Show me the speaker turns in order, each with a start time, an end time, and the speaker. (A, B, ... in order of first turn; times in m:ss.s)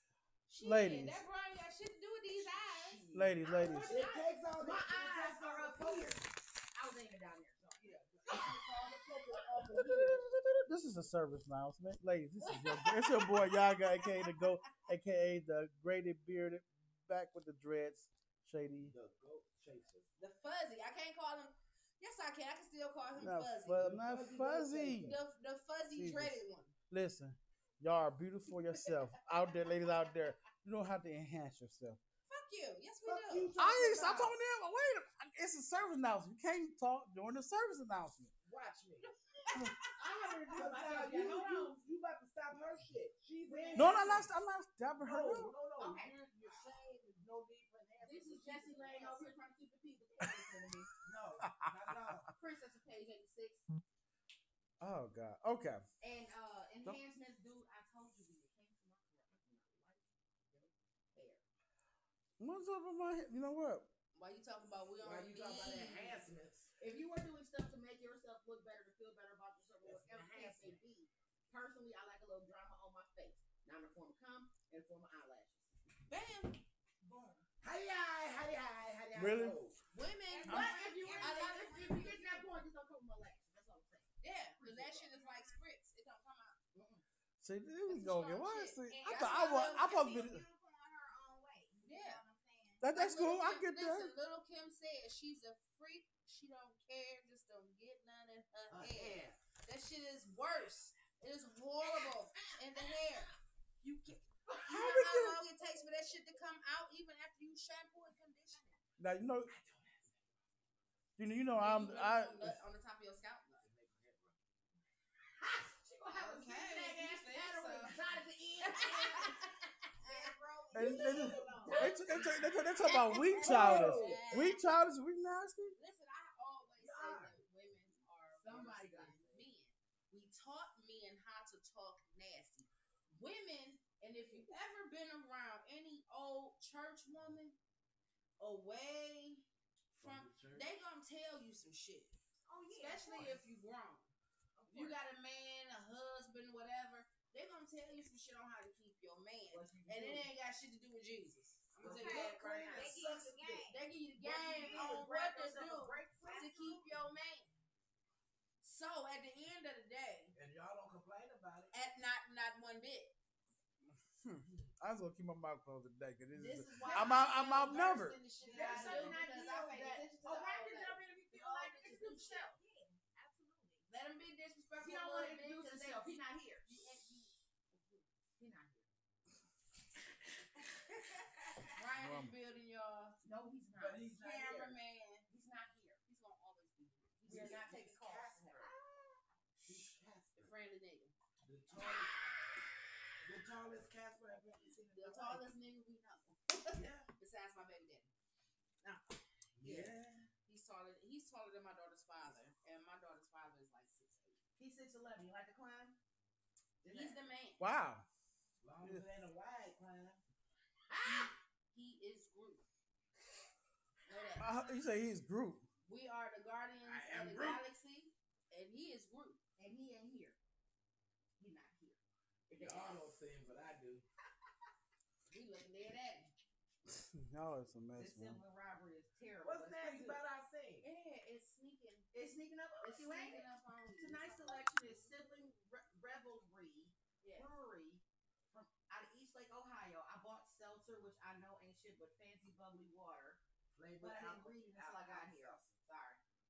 0:00.5-0:03.0 A
0:00.6-0:01.2 B
0:02.5-0:10.2 C
0:03.1-0:04.0 B
0:03.6-0:06.2 D
0:07.8-0:10.2 D
0:09.7-0:18.9 B
0:12.4-0:14.4 A
0:18.8-0:20.1 D
0:20.2-0:23.9 A
0:23.2-0:25.2 B
0:23.7-0:25.2 D
0:25.0-0:26.7 A
0:25.9-0:26.4 B
0:26.9-0:32.0 B
0:32.3-0:33.5 A
0:33.0-0:34.4 D
0:33.6-0:38.3 B
0:38.4-0:39.1 D
0:39.0-0:40.9 A
0:39.9-0:41.8 C
0:40.5-0:44.3 D
0:43.4-0:44.3 C
0:43.7-0:45.6 B
0:45.0-0:48.9 D
0:45.8-0:46.1 A
0:48.0-0:49.3 A
0:48.4-0:50.9 C
0:51.0-0:52.3 D
0:51.4-0:52.3 B
0:52.4-0:53.6 A
0:54.8-0:55.8 B
0:56.0-1:01.4 C
1:02.4-1:03.9 B
1:04.1-1:06.2 A
1:05.0-1:06.7 D
1:06.8-1:15.7 C
1:09.8-1:10.7 D
1:10.3-1:10.7 A
1:16.1-1:16.6 A
1:17.0-1:17.5 C
1:17.6-1:19.8 D
1:19.2-1:19.6 B
1:19.9-1:22.2 A
1:20.3-1:22.6 E
1:20.4-1:25.1 C
1:24.2-1:26.6 A
1:25.1-1:25.6 E
1:26.7-1:27.0 C
1:27.4-1:30.4 B
1:27.8-1:30.0 A
1:28.9-1:32.9 E
1:31.8-1:32.2 A
1:32.8-1:34.1 B
1:32.9-1:44.0 A
1:38.7-1:39.4 D
1:44.6-1:48.8 A
1:44.6-1:45.4 B
1:49.0-1:49.5 B
1:49.5-1:50.1 D
1:51.2-1:52.6 B
1:51.5-1:53.6 A
1:53.6-1:54.4 D
1:55.4-1:59.7 C
1:56.1-1:58.0 A
1:58.6-2:00.3 A
2:00.0-2:01.9 E
2:00.7-2:02.3 C
2:00.7-2:05.8 B
2:01.1-2:01.8 D
2:01.6-2:02.3 A
2:02.8-2:04.8 A
2:03.0-2:04.1 C
2:03.3-2:04.2 D
2:05.8-2:17.6 A
2:06.8-2:07.4 D
2:08.4-2:09.4 C
2:18.4-2:19.4 A
2:19.9-2:20.7 D
2:20.0-2:22.1 A
2:22.4-2:23.4 E
2:22.7-2:24.1 A
2:24.6-2:25.0 C
2:24.7-2:33.0 A
2:29.5-2:30.3 C
2:31.8-2:32.2 C
2:31.8-2:33.7 D
2:31.8-2:33.8 E
2:33.6-2:37.5 A
2:34.2-2:36.7 C
2:34.6-2:35.0 E
2:36.2-2:37.0 E
2:38.6-2:40.3 A
2:40.3-2:41.7 D
2:41.7-2:43.1 A
2:43.9-2:48.2 B
2:46.3-2:52.5 A
2:46.8-2:47.4 C
2:48.4-2:49.3 D
2:48.4-2:52.6 C
2:52.0-2:53.8 E
2:53.9-2:58.0 A
2:54.8-2:57.3 C
2:58.4-2:58.9 C
3:00.7-3:01.6 E
3:01.7-3:03.2 A
3:02.0-3:02.4 B
3:03.2-3:04.4 C
3:03.8-3:04.8 D
3:04.1-3:05.3 A
3:05.3-3:06.0 C
3:06.1-3:07.9 A
3:07.2-3:08.7 C
3:07.3-3:08.7 D
3:08.6-3:09.2 E
3:09.6-3:10.5 D
3:10.4-3:11.1 A
3:11.4-3:12.3 D
3:13.2-3:15.4 D
3:14.9-3:18.1 A
3:16.7-3:17.1 D
3:18.8-3:24.4 A
3:19.6-3:20.3 D
3:24.6-3:26.0 C
3:26.8-3:27.2 C
3:26.9-3:27.7 A
3:27.6-3:28.0 B
3:28.6-3:30.2 D
3:30.9-3:31.3 C
3:31.0-3:32.6 A
3:34.1-3:34.5 A
3:34.4-3:35.7 B
3:35.8-3:39.4 A
3:36.8-3:37.6 D
3:39.6-3:40.4 C
3:41.4-3:43.1 C
3:42.5-3:44.0 D
3:45.3-3:46.3 A
3:46.9-3:48.4 B
3:48.0-3:50.2 C
3:49.4-3:50.8 D
3:50.8-3:52.1 A
3:52.1-4:03.4 C
3:52.8-3:55.2 A
3:57.2-3:57.5 A
4:03.7-4:05.6 D
4:04.0-4:06.2 C